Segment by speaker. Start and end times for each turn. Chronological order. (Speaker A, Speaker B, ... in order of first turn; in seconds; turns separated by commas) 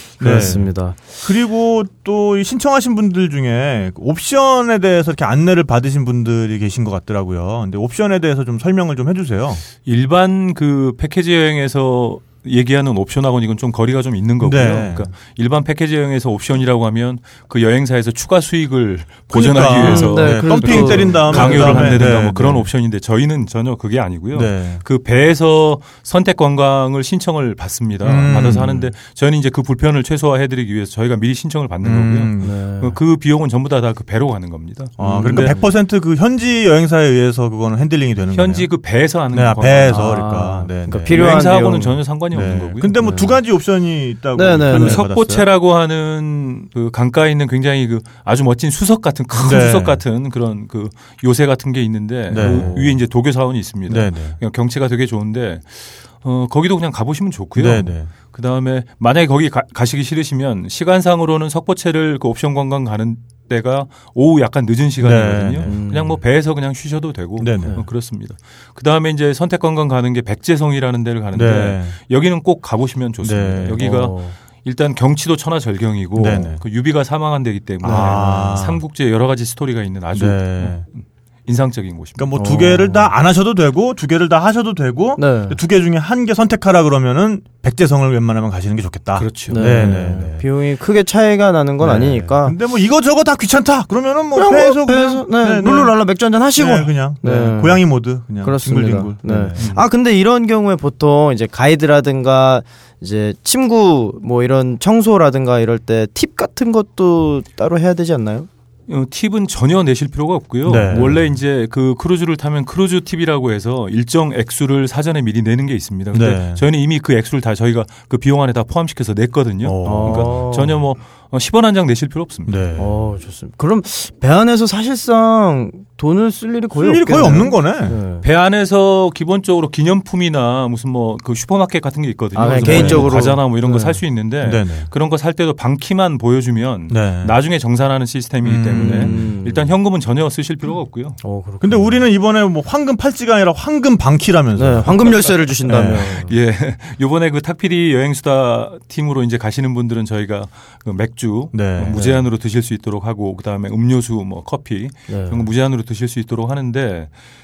Speaker A: 0.2-9.6, Speaker B: 0.2-1.0, Speaker C: 9.8-35.5, Speaker A: 14.4-15.1, Speaker A: 19.3-22.7, Speaker B: 19.7-22.1, Speaker A: 24.3-24.8, Speaker A: 28.0-28.9, Speaker A: 31.8-32.6, Speaker B: 32.4-33.0, Speaker B: 35.0-35.7, Speaker A: 35.0-38.7, Speaker C: 38.3-40.2, Speaker A: 39.3-45.4, Speaker B: 39.9-42.0, Speaker C: 41.1-43.0, Speaker B: 43.0-43.4, Speaker B: 44.3-45.2, Speaker C: 44.7-80.9, Speaker A: 49.3-50.0, Speaker A: 52.3-53.0, Speaker B: 52.4-53.0, Speaker A: 53.9-54.4, Speaker A: 57.6-58.1, Speaker A: 65.0-65.7, Speaker B: 65.6-66.2, Speaker A: 67.4-67.8, Speaker A: 71.3-72.0, Speaker A: 73.2-73.9, Speaker B: 73.8-74.3, Speaker A: 76.2-76.6, Speaker B: 77.8-78.2, Speaker A: 77.8-78.8, Speaker A: 80.1-80.8, Speaker C: 81.5-82.3, Speaker A: 82.2-90.5, Speaker B: 82.3-83.1, Speaker B: 85.2-85.6, Speaker C: 89.2-89.9, Speaker B: 89.5-92.6, Speaker A: 91.8-99.8, Speaker B: 94.3-108.5, Speaker C: 99.6-99.8, Speaker C: 108.9-122.7, Speaker A: 110.7-111.2, Speaker B: 110.9-111.2, Speaker A: 116.1-116.6, Speaker A: 119.6-120.5, Speaker B: 119.8-120.8, Speaker A: 122.5-123.1, Speaker B: 122.8-128.2, Speaker A: 126.8-128.0, Speaker C: 128.2-141.2, Speaker B: 132.3-134.0, Speaker A: 132.5-133.3, Speaker A: 134.4-134.9, Speaker A: 136.9-137.4, Speaker A: 138.4-139.3, Speaker B: 138.8-139.7, Speaker B: 141.2-142.1, Speaker A: 141.6-146.2, Speaker B: 144.6-146.3, Speaker C: 145.7-157.1, Speaker A: 151.5-152.0, Speaker B: 151.9-152.2, Speaker B: 155.1-155.5